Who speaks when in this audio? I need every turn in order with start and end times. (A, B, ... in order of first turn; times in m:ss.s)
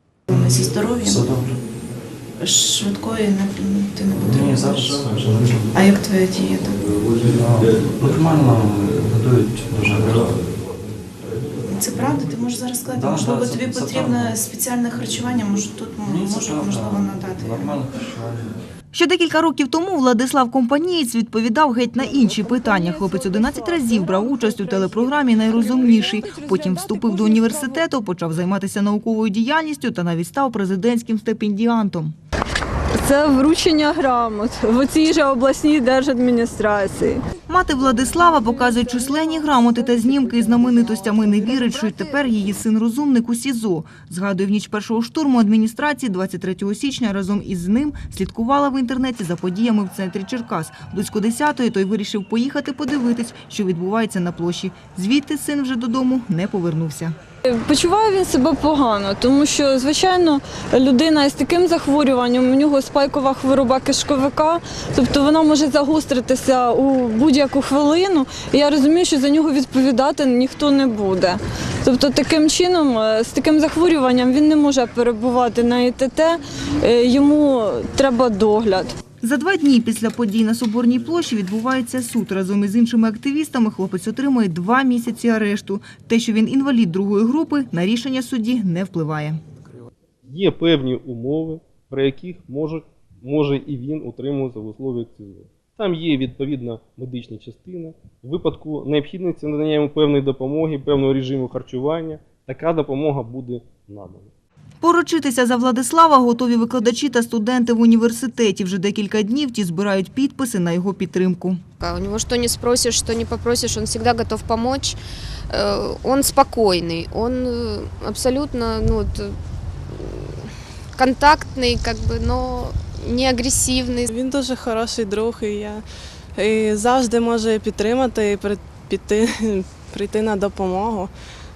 0:00.3-0:01.2 A
0:01.0-0:01.6 B
0:02.4-0:05.0 A
0:04.1-0:05.7 B
0:05.7-0:06.8 A
0:07.3-0:10.5 B
0:11.6-0:17.7 A
0:12.9-0:14.4 B
0:16.0-0:18.6 B
0:18.9-0:32.1 C
0:22.0-0:27.8 D
0:33.0-0:37.2 D
0:37.5-0:57.1 C
0:38.6-0:42.2 D
0:57.5-1:18.9 D
1:19.2-1:29.4 C
1:30.2-1:44.3 E
1:44.8-1:51.6 C
1:51.8-1:55.0 F
1:55.5-1:59.4 F
1:59.9-2:04.1 F
2:04.1-2:05.8 G
2:06.4-2:11.1 G